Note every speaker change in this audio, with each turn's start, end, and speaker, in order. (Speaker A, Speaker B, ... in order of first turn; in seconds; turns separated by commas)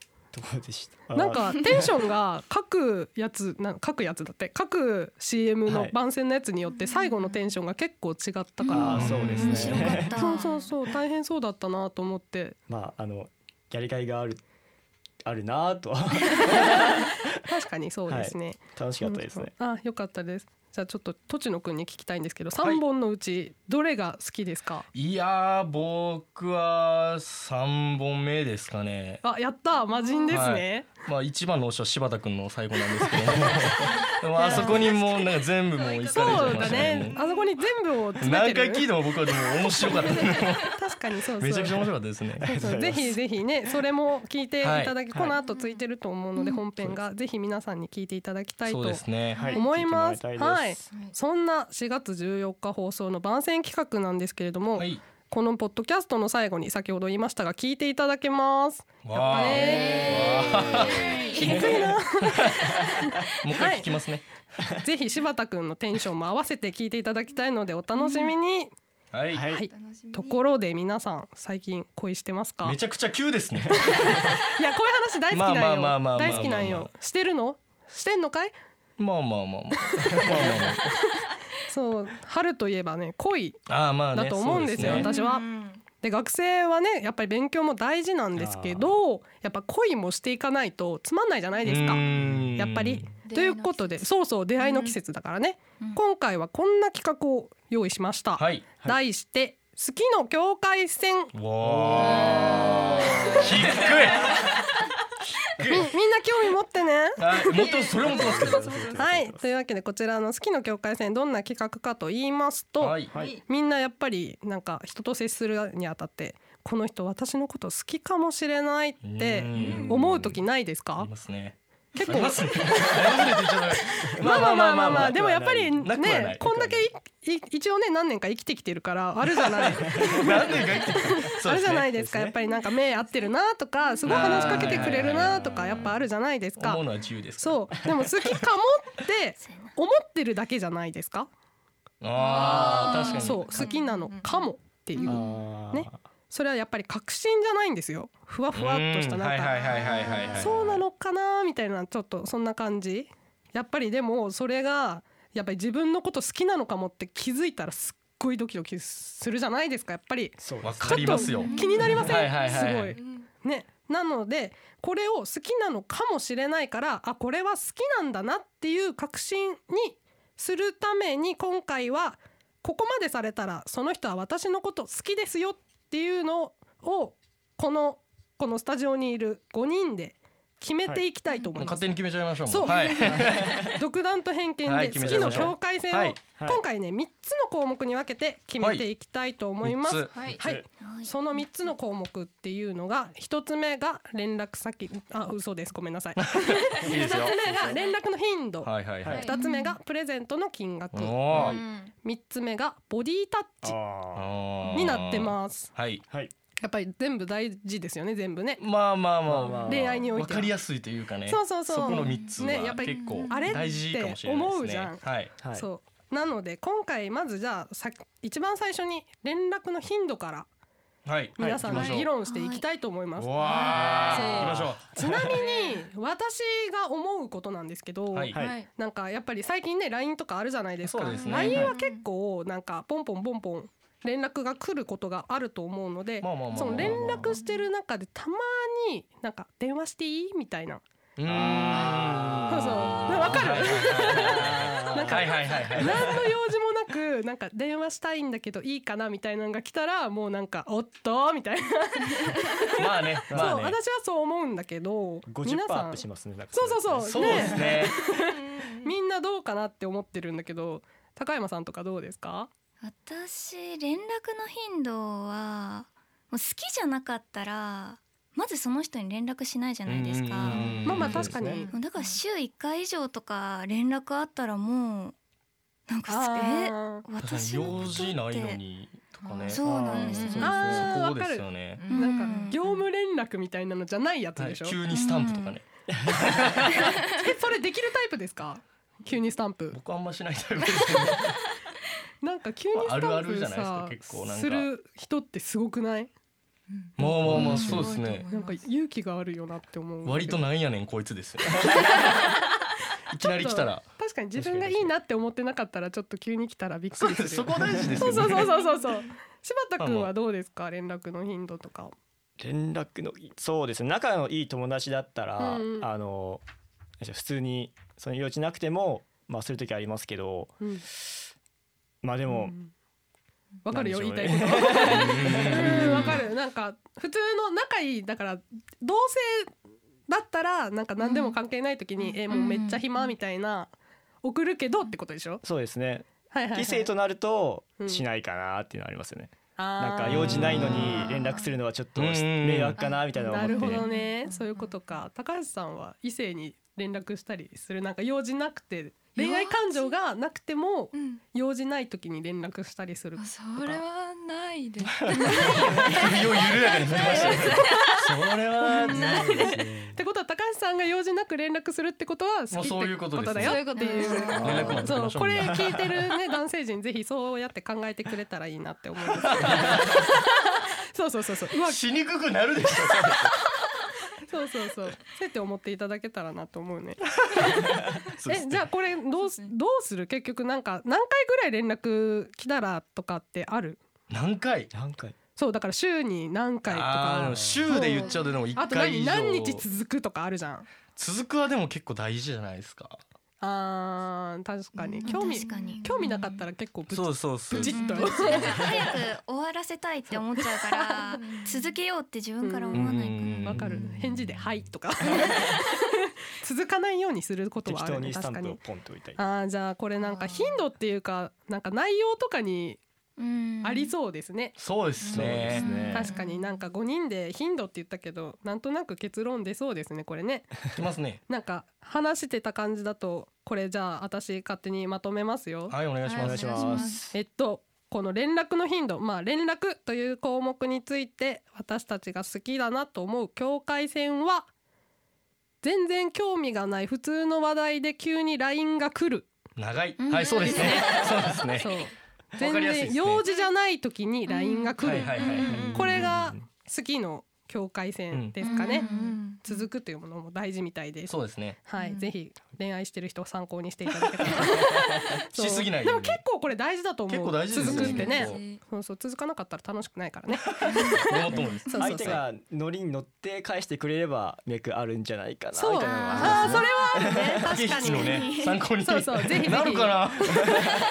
Speaker A: 0.3-1.9, Speaker B: 1.1-12.6, Speaker A: 5.7-5.9, Speaker C: 8.6-10.7, Speaker A: 8.7-10.2, Speaker D: 8.9-9.9, Speaker A: 12.7-14.4, Speaker A: 15.2-17.4, Speaker B: 16.3-24.9, Speaker A: 18.1-19.5, Speaker D: 24.9-29.2, Speaker B: 29.2-30.9, Speaker E: 29.9-30.4, Speaker D: 30.3-37.2, Speaker A: 33.2-33.7, Speaker E: 33.9-37.6, Speaker B: 34.4-35.0, Speaker B: 36.1-38.9, Speaker D: 38.2-40.7, Speaker B: 39.8-41.8, Speaker D: 41.4-42.5, Speaker A: 42.4-43.2, Speaker B: 42.6-60.2, Speaker D: 44.6-44.9, Speaker E: 45.4-45.8, Speaker D: 48.6-49.5, Speaker A: 49.4-50.8, Speaker D: 54.8-55.0, Speaker D: 59.0-61.0, Speaker A: 59.5-61.9, Speaker E: 59.6-61.7, Speaker B: 61.3-63.9, Speaker D: 62.3-62.7, Speaker D: 63.4-64.2, Speaker B: 64.8-68.7, Speaker D: 69.1-69.5, Speaker A: 69.3-69.7, Speaker B: 69.5-72.8, Speaker E: 69.7-70.4, Speaker D: 72.6-74.4, Speaker B: 73.8-78.5, Speaker D: 75.3-76.9, Speaker A: 76.2-76.6, Speaker D: 79.0-81.0, Speaker B: 80.1-80.8, Speaker B: 81.7-83.6, Speaker D: 83.7-85.0, Speaker B: 84.1-85.5, Speaker A: 84.8-85.0, Speaker E: 84.9-85.8, Speaker B: 86.0-92.0, Speaker A: 88.3-89.0, Speaker D: 91.6-93.0, Speaker A: 92.1-93.0, Speaker B: 92.5-101.3, Speaker E: 93.2-94.0, Speaker E: 94.6-94.9, Speaker D: 98.4-98.6, Speaker D: 101.3-104.4, Speaker A: 101.6-104.2, Speaker E: 102.2-104.6, Speaker D: 105.6-105.9, Speaker B: 105.7-107.5, Speaker D: 107.2-108.7, Speaker E: 107.4-109.1, Speaker A: 108.0-109.4, Speaker B: 109.0-121.1, Speaker D: 112.8-113.1, Speaker A: 113.1-113.4, Speaker E: 113.1-113.4, Speaker D: 119.0-120.4, Speaker A: 119.5-119.8, Speaker E: 119.6-119.9, Speaker D: 121.0-125.2, Speaker B: 121.9-123.5, Speaker A: 122.8-123.2, Speaker A: 124.1-126.9, Speaker B: 124.2-136.8, Speaker D: 125.8-126.4, Speaker D: 129.9-131.8, Speaker A: 129.9-132.3, Speaker D: 134.0-135.9, Speaker A: 134.3-135.7, Speaker D: 136.6-138.0, Speaker B: 137.4-141.3, Speaker D: 142.0-143.6, Speaker E: 142.2-144.4, Speaker B: 142.5-149.6, Speaker A: 145.0-146.0, Speaker D: 148.5-150.8, Speaker E: 149.7-150.3, Speaker B: 150.3-181.9, Speaker A: 160.4-161.3, Speaker D: 160.6-163.0, Speaker E: 161.4-163.3, Speaker C: 161.5-161.9, Speaker D: 181.6-183.8, Speaker B: 182.5-203.8, Speaker A: 183.1-183.6, Speaker D: 184.6-186.2, Speaker A: 185.0-185.6, Speaker A: 186.4-186.6, Speaker D: 188.6-188.8, Speaker D: 189.6-190.2, Speaker E: 190.1-190.4, Speaker A: 190.4-190.6, Speaker C: 190.8-191.1, Speaker D: 196.2-197.6, Speaker A: 197.4-197.7, Speaker D: 198.6-199.3, Speaker A: 199.0-199.3, Speaker E: 199.1-199.3, Speaker C: 199.3-199.7, Speaker D: 200.9-201.6, Speaker A: 201.3-201.6, Speaker E: 201.4-201.9, Speaker A: 203.6-204.3, Speaker D: 204.1-206.0, Speaker B: 204.7-205.7, Speaker B: 206.6-208.6, Speaker D: 208.6-215.3, Speaker A: 209.3-210.1, Speaker B: 209.6-210.5, Speaker B: 211.3-220.5, Speaker E: 212.9-213.5, Speaker A: 215.4-215.7, Speaker D: 221.1-222.1, Speaker B: 221.4-240.8, Speaker A: 221.4-222.0, Speaker C: 222.2-222.6, Speaker D: 223.2-224.9, Speaker E: 223.4-224.4, Speaker A: 224.6-225.3, Speaker E: 225.3-225.8, Speaker D: 228.1-228.4, Speaker A: 228.3-228.6, Speaker E: 228.4-228.7, Speaker D: 230.8-231.7, Speaker E: 231.1-232.0, Speaker A: 231.4-231.7, Speaker D: 236.2-237.4, Speaker A: 236.8-237.3, Speaker D: 241.2-246.3, Speaker A: 241.2-246.2, Speaker B: 242.5-258.3, Speaker D: 252.7-253.8, Speaker A: 253.3-253.7, Speaker A: 255.2-257.8, Speaker D: 257.1-258.0, Speaker E: 258.3-258.9, Speaker B: 258.8-262.5, Speaker C: 262.8-270.8, Speaker D: 269.9-271.4, Speaker A: 270.4-271.6, Speaker B: 270.8-271.7, Speaker E: 271.5-272.2, Speaker C: 271.7-275.1, Speaker C: 275.9-278.6, Speaker B: 276.1-277.0, Speaker D: 277.2-281.9, Speaker E: 279.2-280.4, Speaker C: 279.5-280.5, Speaker A: 279.6-280.9, Speaker B: 280.4-284.8, Speaker E: 281.8-282.5, Speaker C: 281.9-282.6, Speaker D: 284.4-287.0, Speaker C: 284.9-285.6, Speaker A: 285.9-286.7, Speaker B: 287.1-289.8, Speaker D: 289.7-291.4, Speaker B: 292.2-296.1, Speaker D: 292.7-294.7, Speaker E: 296.7-298.6, Speaker D: 297.0-298.3, Speaker B: 297.0-297.7, Speaker A: 297.2-297.9, Speaker B: 298.3-300.4, Speaker D: 300.0-302.3, Speaker B: 301.6-302.6, Speaker D: 303.1-303.8, Speaker B: 303.2-311.9, Speaker A: 304.3-304.9, Speaker D: 306.9-308.6, Speaker A: 307.7-308.2, Speaker D: 309.8-310.1, Speaker A: 312.4-316.4, Speaker B: 315.4-315.9, Speaker A: 317.0-320.6, Speaker A: 322.0-322.6, Speaker B: 322.3-322.7, Speaker B: 323.6-329.5, Speaker A: 323.7-326.2, Speaker D: 324.7-326.2, Speaker B: 330.1-335.4, Speaker C: 332.3-332.8, Speaker A: 335.4-343.9, Speaker B: 336.3-336.9, Speaker B: 339.6-341.1, Speaker D: 340.1-341.1, Speaker D: 341.9-342.8, Speaker E: 342.8-344.7, Speaker B: 343.2-353.8, Speaker E: 349.1-349.9, Speaker E: 350.9-351.2, Speaker E: 353.2-358.1, Speaker D: 355.0-359.3, Speaker B: 355.1-356.1, Speaker B: 357.0-358.1, Speaker B: 358.6-371.8, Speaker E: 358.8-359.6, Speaker A: 358.9-360.0, Speaker D: 362.5-363.7, Speaker E: 363.4-364.6, Speaker C: 363.8-364.7, Speaker D: 364.3-366.0, Speaker A: 364.3-364.9, Speaker D: 369.2-370.1, Speaker A: 369.4-369.9, Speaker D: 371.6-373.3, Speaker A: 373.0-373.3, Speaker B: 374.3-377.7, Speaker D: 377.2-378.7, Speaker B: 378.3-383.8, Speaker E: 379.1-379.5, Speaker D: 384.1-384.7, Speaker A: 384.7-385.1, Speaker B: 385.4-390.7, Speaker D: 386.7-389.6, Speaker A: 387.3-387.6, Speaker E: 387.9-388.6, Speaker D: 390.9-393.0, Speaker B: 393.4-398.6, Speaker C: 394.8-396.4, Speaker E: 395.0-395.9, Speaker D: 396.9-397.9, Speaker C: 397.6-403.6, Speaker E: 401.2-401.5, Speaker B: 402.4-402.9, Speaker D: 402.7-403.8, Speaker B: 403.4-408.6, Speaker A: 403.7-404.4, Speaker A: 407.6-409.2, Speaker B: 409.2-412.8, Speaker E: 410.0-410.6, Speaker C: 413.2-413.9, Speaker B: 413.6-414.6, Speaker D: 414.6-415.6, Speaker A: 415.1-416.1, Speaker C: 415.5-416.3, Speaker E: 415.8-416.1, Speaker B: 415.9-420.5, Speaker D: 420.7-421.2, Speaker B: 421.3-425.7, Speaker D: 425.7-426.7, Speaker C: 426.1-427.0, Speaker A: 426.2-427.1, Speaker E: 426.3-427.0, Speaker B: 427.1-434.5, Speaker B: 435.6-439.3, Speaker D: 439.6-441.7, Speaker C: 440.0-441.4, Speaker E: 440.5-441.0, Speaker B: 441.6-445.1, Speaker D: 442.4-443.2, Speaker C: 444.3-445.6, Speaker D: 444.8-445.9, Speaker E: 445.2-445.5, Speaker A: 445.5-446.4, Speaker B: 445.7-451.1, Speaker D: 448.1-448.4, Speaker C: 448.4-449.2, Speaker E: 448.4-449.6, Speaker D: 451.1-451.6, Speaker B: 451.6-462.2, Speaker E: 451.8-452.1, Speaker D: 455.3-456.2, Speaker D: 457.1-458.4, Speaker E: 457.6-458.6, Speaker D: 461.0-462.1, Speaker A: 461.4-467.5, Speaker B: 465.5-470.3, Speaker C: 465.8-466.6, Speaker D: 467.4-470.6, Speaker C: 467.8-468.6